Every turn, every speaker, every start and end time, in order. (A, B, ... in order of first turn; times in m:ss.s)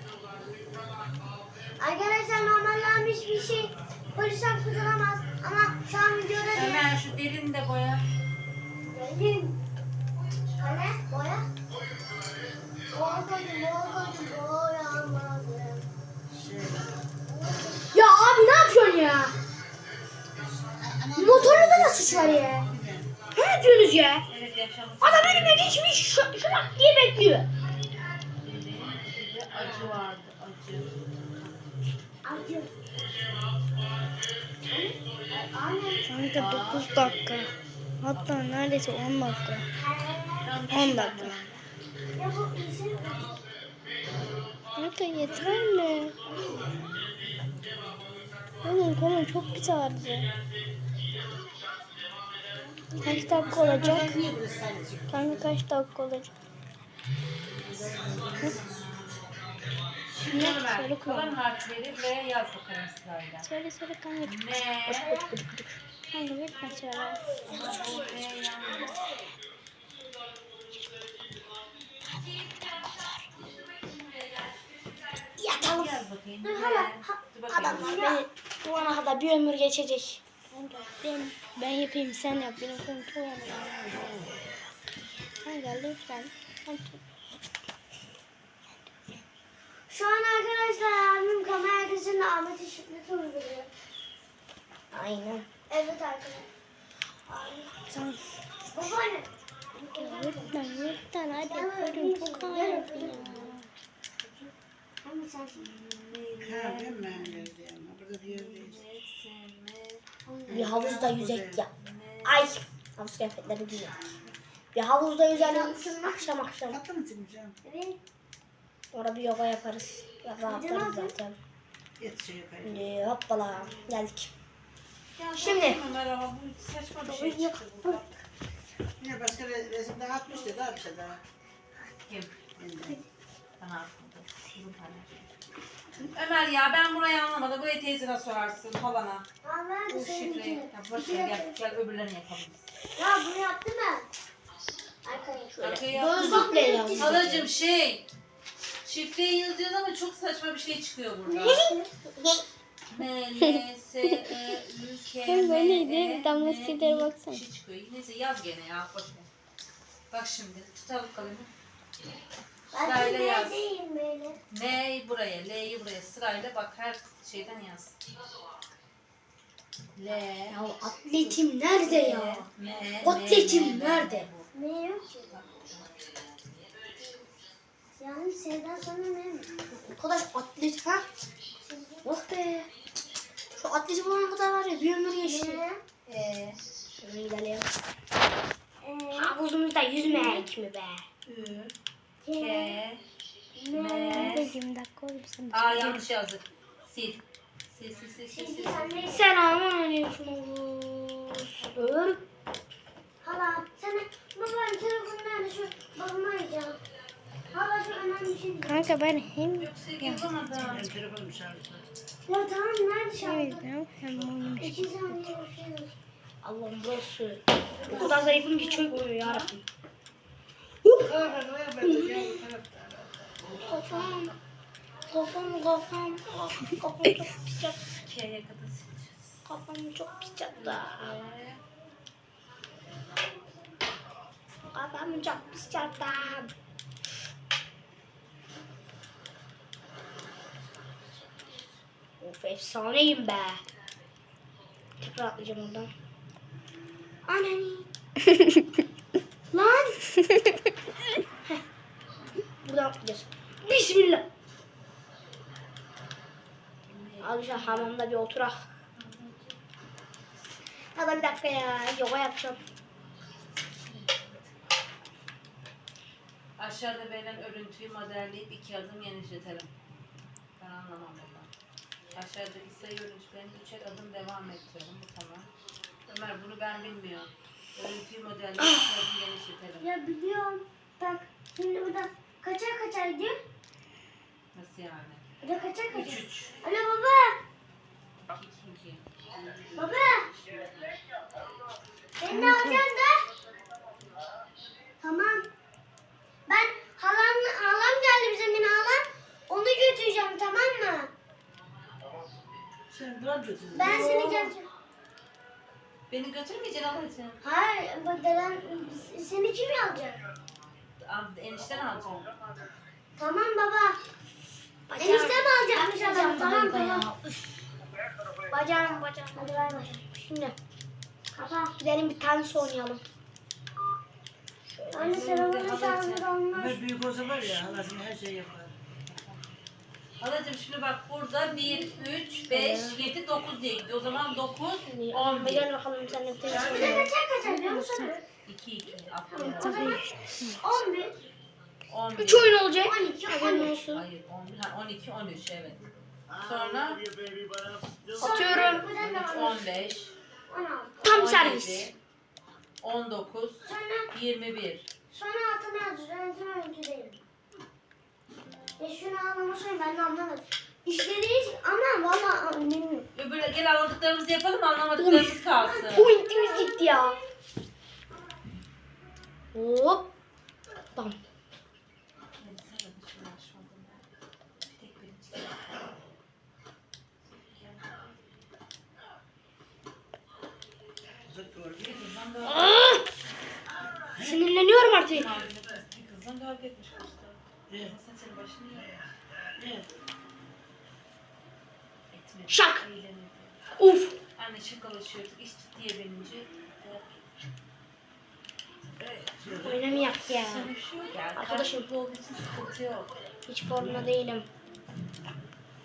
0:01.8-0:06.9 A
0:06.4-0:08.1 B
0:08.9-0:09.6 A
0:10.6-0:11.5 A
0:12.9-0:15.9 A
0:16.3-0:17.0 C
0:17.3-0:18.0 A
0:17.9-0:19.3 D
0:20.8-0:23.1 C
0:21.2-0:22.7 D
0:23.3-0:24.2 D
0:24.3-0:25.8 B
0:25.0-0:27.5 D
0:28.4-0:30.9 B
0:32.2-0:32.7 A
0:34.7-0:36.1 A
0:36.1-0:39.7 E
0:36.4-0:37.2 B
0:38.1-0:38.5 B
0:39.7-0:40.6 A
0:40.4-0:41.6 B
0:40.7-0:41.3 E
0:42.2-0:43.4 A
0:44.8-0:46.2 E
0:48.6-0:50.3 E
0:53.0-0:54.2 E
0:53.1-0:53.4 A
0:53.3-0:55.5 C
0:55.1-0:56.3 E
0:57.6-0:59.3 B
0:57.9-0:58.5 C
1:00.1-1:03.5 B
1:00.3-1:01.4 E
1:03.4-1:04.4 E
1:04.2-1:05.1 B
1:04.9-1:05.8 D
1:05.0-1:05.3 A
1:06.1-1:07.3 E
1:07.4-1:09.0 B
1:12.3-1:13.2 D
1:15.4-1:16.9 D
1:15.5-1:18.1 B
1:16.6-1:16.9 A
1:17.5-1:20.2 D
1:17.6-1:18.2 A
1:20.5-1:23.9 E
1:25.4-1:27.0 E
1:29.9-1:33.7 A
1:34.9-1:35.5 D
1:35.7-1:36.5 A
1:37.3-1:37.7 A
1:37.9-1:38.3 E
1:38.7-1:40.6 A
1:40.0-1:43.7 E
1:41.4-1:43.5 A
1:44.2-1:44.5 B
1:45.0-1:45.7 A
1:45.6-1:47.5 B
1:46.4-1:48.8 C
1:48.2-1:50.0 B
1:50.3-1:50.7 A
1:50.5-1:51.6 C
1:50.5-1:51.7 D
1:51.8-1:52.5 B
1:52.2-1:54.0 D
1:54.7-1:56.8 D
1:55.3-1:56.3 A
1:56.7-1:57.6 C
1:57.6-1:58.0 A
1:58.9-2:01.4 D
2:00.4-2:01.2 A
2:02.0-2:02.9 C
2:02.6-2:04.3 D
2:05.2-2:08.1 B
2:05.4-2:05.8 D
2:07.1-2:07.6 D
2:09.0-2:11.2 C
2:12.1-2:12.4 B
2:12.6-2:13.0 C
2:13.6-2:15.3 B
2:16.0-2:19.3 B
2:19.4-2:21.6 A
2:19.9-2:22.7 B
2:23.0-2:24.1 A
2:25.0-2:27.5 A
2:25.6-2:28.1 B
2:25.9-2:27.3 D
2:28.8-2:31.6 B
2:31.3-2:31.9 A
2:31.4-2:31.8 E
2:32.9-2:39.3 B
2:33.4-2:34.4 E
2:35.2-2:37.4 E
2:40.1-2:41.5 B
2:42.7-2:44.4 A
2:42.7-2:43.7 B
2:44.5-2:48.0 B
2:50.0-2:50.6 B
2:50.5-2:52.4 D
2:51.2-2:54.5 B
2:53.0-2:54.3 D
2:54.5-2:55.4 A
2:55.3-2:55.9 B
2:58.0-2:59.5 A
2:59.8-3:01.0 D
3:01.6-3:02.2 A
3:02.0-3:02.7 D
3:03.6-3:05.6 D
3:05.2-3:05.8 A
3:06.1-3:06.6 B
3:07.0-3:07.7 D
3:08.8-3:09.4 A
3:09.1-3:11.0 D
3:10.1-3:10.5 B
3:11.3-3:11.7 B
3:12.2-3:12.8 A
3:12.3-3:13.0 B
3:13.6-3:14.5 A
3:13.7-3:14.5 B
3:14.1-3:16.0 E
3:15.5-3:19.1 B
3:18.3-3:19.3 A
3:19.0-3:22.2 D
3:23.2-3:26.8 A
3:27.5-3:29.0 A
3:28.6-3:30.3 E
3:29.6-3:30.9 B
3:30.5-3:31.8 C
3:32.3-3:33.6 A
3:33.2-3:35.3 E
3:34.1-3:34.8 C
3:34.6-3:35.9 A
3:36.4-3:39.6 D
3:37.8-3:38.2 B
3:37.8-3:39.1 A
3:39.2-3:39.6 B
3:40.8-3:41.1 D
3:41.1-3:43.3 C
3:41.8-3:42.4 D
3:43.6-3:44.4 D
3:45.1-3:47.8 D
3:47.8-3:49.5 B
3:49.5-3:51.2 D
3:50.5-3:51.6 B
3:54.7-3:56.5 D
4:02.2-4:03.6 D
4:05.0-4:05.9 D
4:07.3-4:07.9 D
4:09.5-4:10.0 D
4:12.6-4:14.3 D
4:16.9-4:18.0 B
4:17.2-4:18.6 D
4:19.0-4:19.6 B
4:21.0-4:22.6 D
4:23.7-4:24.5 B
4:26.6-4:29.7 B
4:30.6-4:31.5 B
4:32.1-4:35.5 B
4:36.1-4:39.9 B
4:39.8-4:43.4 A
4:44.5-4:45.2 B
4:45.4-4:47.4 A
4:45.9-4:46.6 B
4:48.2-4:50.9 B
4:49.8-4:50.3 A
4:52.2-4:53.2 A
4:52.3-4:52.9 E
4:55.0-4:55.5 A
4:56.5-5:01.1 A
5:02.9-5:04.2 C
5:03.7-5:04.6 A
5:03.9-5:04.3 B
5:04.0-5:04.4 D
5:06.1-5:07.4 B
5:07.4-5:10.2 A
5:11.0-5:12.3 B
5:13.2-5:14.0 A
5:14.9-5:17.4 D
5:15.0-5:17.1 A
5:18.5-5:20.6 D
5:19.4-5:20.0 A
5:21.3-5:21.8 A
5:21.8-5:23.0 D
5:24.8-5:25.0 D
5:24.9-5:26.8 A
5:25.0-5:26.3 B
5:26.5-5:28.8 C
5:29.1-5:29.4 B
5:30.2-5:35.7 B
5:32.5-5:33.1 D
5:34.9-5:37.1 D
5:36.4-5:37.1 B
5:36.5-5:38.2 A
5:37.4-5:38.2 E
5:38.5-5:40.0 B
5:39.4-5:40.6 E
5:39.4-5:40.0 A
5:40.6-5:41.2 A
5:41.9-5:42.6 B
5:42.2-5:44.0 D
5:42.8-5:43.8 A
5:43.9-5:47.1 B
5:48.2-5:49.9 A
5:48.2-5:48.9 D
5:48.8-5:50.2 B
5:50.5-5:51.2 A
5:51.0-5:51.9 D
5:51.0-5:52.0 B
5:52.8-5:54.9 B
5:53.6-5:54.1 A
5:55.1-5:57.2 A
5:58.8-6:03.1 A
6:03.1-6:06.1 B
6:05.0-6:07.2 D
6:05.5-6:07.2 A
6:09.5-6:10.1 D
6:12.4-6:14.0 B
6:14.7-6:15.6 B
6:17.3-6:18.1 B
6:21.3-6:22.0 C
6:21.8-6:22.9 B
6:22.4-6:23.0 D
6:24.2-6:25.3 D
6:25.0-6:29.2 B
6:27.7-6:28.0 C
6:29.6-6:29.9 C
6:32.1-6:33.6 B
6:32.5-6:32.9 D
6:33.8-6:34.2 D
6:34.4-6:37.2 B
6:39.4-6:40.0 C
6:39.6-6:40.7 D
6:40.3-6:43.1 B
6:41.4-6:41.9 D
6:43.5-6:44.5 D
6:43.8-6:44.1 C